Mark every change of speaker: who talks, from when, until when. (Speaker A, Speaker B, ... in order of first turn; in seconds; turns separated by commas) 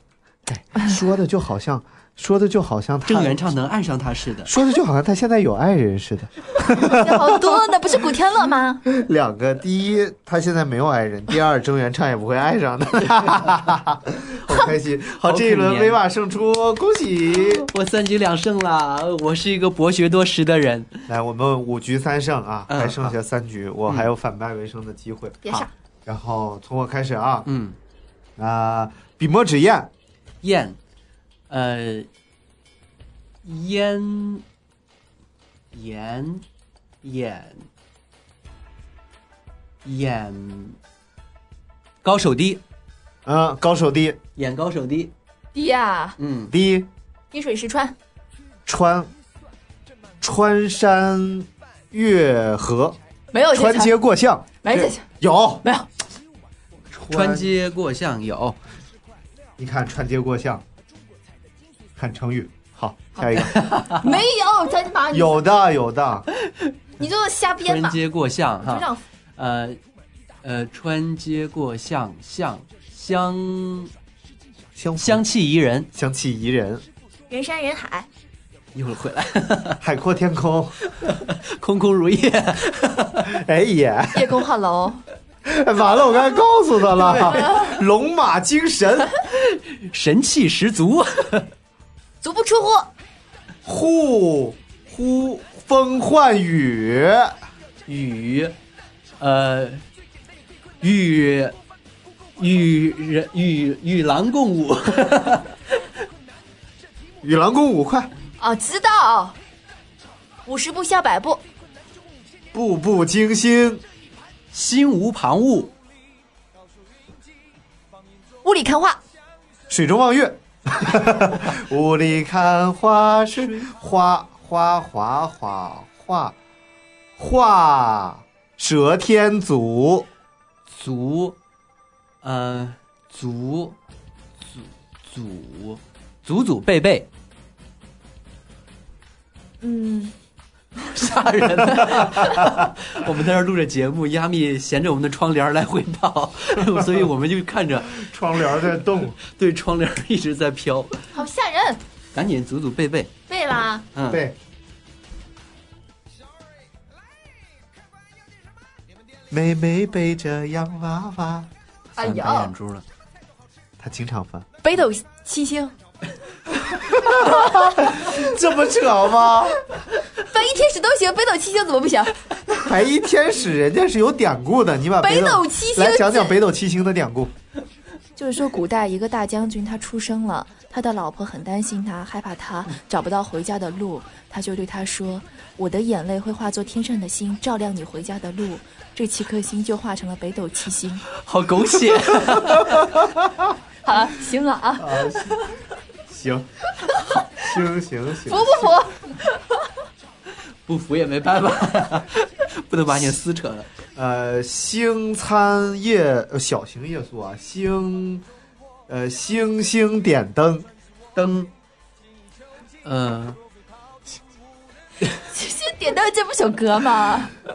Speaker A: 0.5-3.4, Speaker B: 3.0-4.5, Speaker A: 4.5-7.6, Speaker C: 6.7-8.8, Speaker A: 8.8-17.7, Speaker B: 15.2-16.0, Speaker B: 17.4-21.0, Speaker A: 21.1-27.5, Speaker B: 22.7-23.1, Speaker C: 25.4-25.7, Speaker B: 27.4-27.8, Speaker A: 28.4-29.9, Speaker B: 30.4-30.8, Speaker B: 31.5-32.1, Speaker B: 33.4-34.4, Speaker B: 35.7-36.4, Speaker B: 37.0-37.6, Speaker B: 39.8-40.8, Speaker B: 42.0-42.6, Speaker A: 43.2-44.2, Speaker B: 44.4-45.1, Speaker C: 45.5-46.1, Speaker B: 46.2-46.5, Speaker A: 46.5-46.9, Speaker C: 47.3-47.9, Speaker A: 48.6-49.1, Speaker A: 50.2-53.0, Speaker C: 53.3-54.0, Speaker A: 53.5-55.6, Speaker C: 54.6-55.0, Speaker C: 55.6-55.9, Speaker A: 56.9-57.5, Speaker B: 56.9-58.6, Speaker A: 59.6-60.6, Speaker A: 62.0-63.6, Speaker C: 63.2-65.4, Speaker B: 63.4-64.1, Speaker A: 65.1-66.2, Speaker B: 66.4-66.7, Speaker C: 67.0-68.0, Speaker B: 67.6-69.8, Speaker C: 68.6-69.0, Speaker B: 70.4-73.9, Speaker A: 74.8-75.2, Speaker B: 75.0-75.9, Speaker A: 75.9-76.8, Speaker C: 77.3-78.1, Speaker B: 78.7-79.8, Speaker A: 79.8-80.8, Speaker B: 80.8-83.3, Speaker A: 83.2-84.4, Speaker C: 84.1-85.0, Speaker A: 85.4-89.2, Speaker B: 89.3-91.5, Speaker C: 92.2-92.9, Speaker A: 93.6-97.3, Speaker B: 97.9-98.5, Speaker B: 99.2-99.8, Speaker B: 100.8-101.5, Speaker B: 102.4-105.6, Speaker A: 107.2-108.1, Speaker C: 108.4-109.4, Speaker C: 110.5-111.4, Speaker A: 112.5-113.8, Speaker B: 114.5-115.7, Speaker C: 118.4-119.0, Speaker A: 119.7-126.3, Speaker A: 127.2-130.1, Speaker B: 130.7-131.3, Speaker B: 132.2-133.8, Speaker B: 134.5-137.1, Speaker C: 139.6-140.1, Speaker B: 140.8-148.1, Speaker A: 148.0-149.2, Speaker B: 149.2-151.1, Speaker C: 151.1-151.8, Speaker B: 152.1-153.1, Speaker C: 153.3-153.8, Speaker B: 153.9-154.2, Speaker A: 154.1-154.4, Speaker A: 159.3-161.5, Speaker C: 161.9-162.5, Speaker B: 162.0-162.8, Speaker A: 163.8-164.4, Speaker C: 164.6-165.7, Speaker A: 166.5-169.6, Speaker C: 170.2-172.2, Speaker A: 172.5-177.3, Speaker C: 175.0-176.4, Speaker C: 178.2-191.0, Speaker B: 191.1-193.1, Speaker C: 193.8-195.5, Speaker A: 194.8-196.5, Speaker A: 197.3-198.8, Speaker C: 198.2-199.6, Speaker B: 200.7-203.7, Speaker A: 203.9-208.2, Speaker A: 208.9-210.7, Speaker B: 211.1-211.5, Speaker B: 212.8-213.4, Speaker C: 215.3-217.3